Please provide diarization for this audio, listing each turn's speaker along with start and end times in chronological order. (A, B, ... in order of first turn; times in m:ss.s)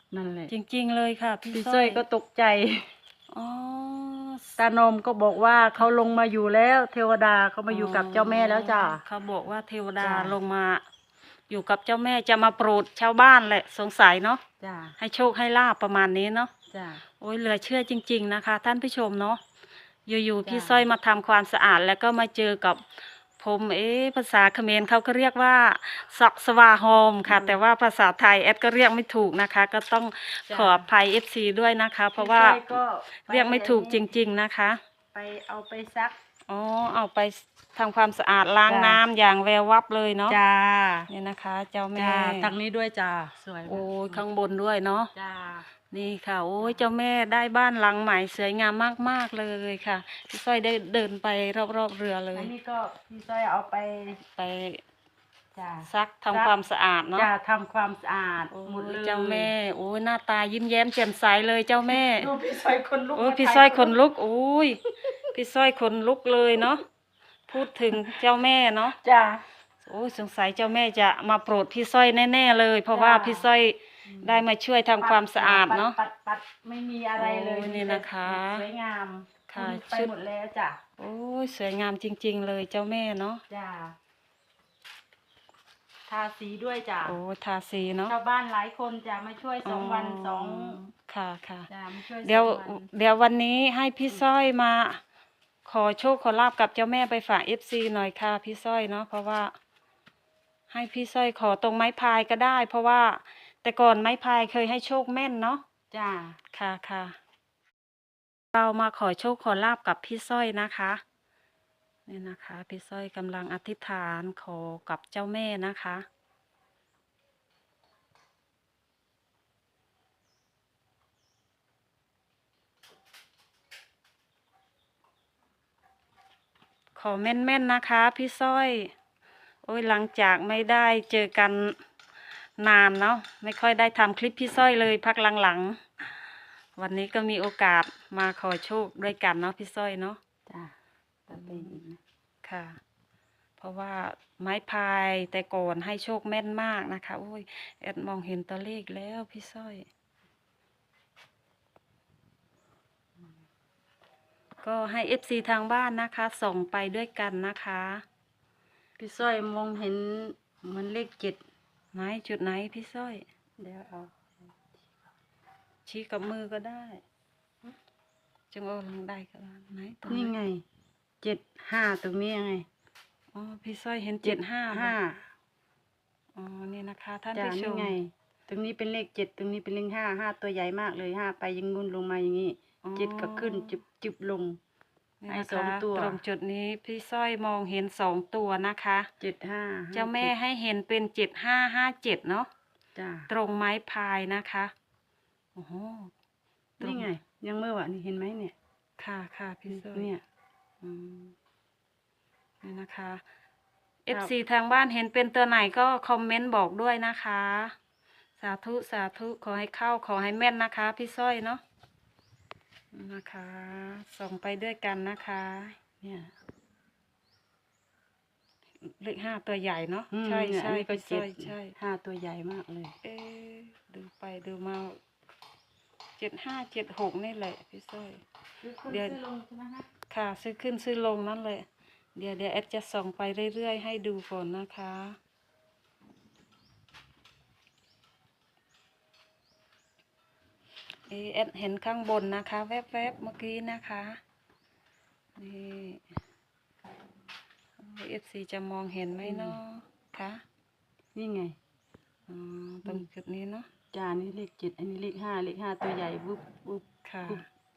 0:00.1-0:00.5 A
0:00.5-0:02.0 B
0:01.5-0:02.9 A
0:03.3-0:04.6 B
0:04.6-0:09.0 A
0:07.7-0:10.8 B
0:10.0-0:10.4 A
0:11.5-0:14.4 B
0:14.6-0:15.0 A
0:15.0-0:16.5 B
0:16.7-0:17.0 A
0:17.2-0:19.4 B
0:20.1-0:22.8 B
0:20.4-0:20.9 A
0:23.4-0:34.8 B
0:27.3-0:27.6 A
0:30.5-0:30.9 A
0:32.2-0:34.0 A
0:35.1-0:36.2 A
0:36.5-0:40.4 B
0:38.7-0:39.0 A
0:40.3-0:41.1 A
0:41.1-0:42.5 B
0:41.9-0:44.2 A
0:43.6-0:45.1 B
0:45.1-0:45.7 A
0:45.9-0:52.5 B
0:52.3-0:54.2 A
0:54.3-0:54.8 B
0:55.5-0:56.5 A
0:55.9-0:57.3 B
0:57.1-0:59.5 A
0:58.5-1:02.3 B
1:01.9-1:03.9 A
1:03.1-1:06.8 B
1:07.5-1:09.0 B
1:09.0-1:09.4 A
1:09.8-1:16.0 B
1:12.9-1:13.5 A
1:14.1-1:14.4 A
1:15.0-1:20.8 A
1:17.2-1:18.6 B
1:19.5-1:20.1 B
1:21.0-1:23.4 B
1:23.5-1:24.0 A
1:26.1-1:27.2 A
1:27.0-1:28.1 B
1:28.0-1:30.8 A
1:29.6-1:31.7 B
1:31.7-1:32.9 A
1:32.2-1:35.0 B
1:35.6-1:39.5 B
1:40.7-1:45.6 B
1:45.9-1:46.4 A
1:46.5-1:47.2 B
1:48.5-1:51.0 B
1:52.1-1:56.0 B
2:07.0-2:08.9 B
2:09.6-2:11.8 B
2:12.6-2:16.2 B
2:16.8-2:20.2 B
2:20.5-2:20.7 A
2:21.3-2:22.0 A
2:21.3-2:21.8 B
2:22.4-2:22.8 B
2:23.6-2:29.9 B
2:34.6-2:38.0 B
2:39.0-2:41.4 A
2:41.9-2:43.2 B
2:43.6-2:45.0 A
2:45.8-2:47.0 B
2:48.5-2:50.3 B
2:50.1-2:50.6 A
2:51.2-2:52.6 A
2:53.3-2:54.9 B
2:54.2-2:55.2 A
2:56.4-2:58.0 B
2:57.3-3:04.6 A
3:02.8-3:03.8 B
3:05.2-3:09.1 B
3:05.3-3:06.2 A
3:09.2-3:10.3 A
3:09.9-3:12.5 B
3:13.0-3:13.3 A
3:13.3-3:14.7 B
3:15.5-3:16.1 B
3:16.8-3:17.1 B
3:16.8-3:18.5 A
3:19.0-3:20.1 B
3:19.7-3:20.2 A
3:20.8-3:21.3 B
3:22.6-3:23.2 B
3:24.0-3:27.7 B
3:28.4-3:31.6 B
3:32.9-3:35.8 B
3:36.0-3:36.3 A
3:38.8-3:41.8 B
3:40.1-3:43.0 A
3:43.0-3:45.0 B
3:46.2-3:48.2 B
3:48.6-3:49.9 A
3:48.9-3:49.2 B
3:50.1-3:55.2 B
4:01.1-4:04.2 B
4:05.4-4:06.0 B
4:07.8-4:10.4 B
4:09.2-4:09.6 A
4:11.1-4:11.6 A
4:12.3-4:13.7 B
4:13.9-4:17.4 A
4:17.0-4:17.4 B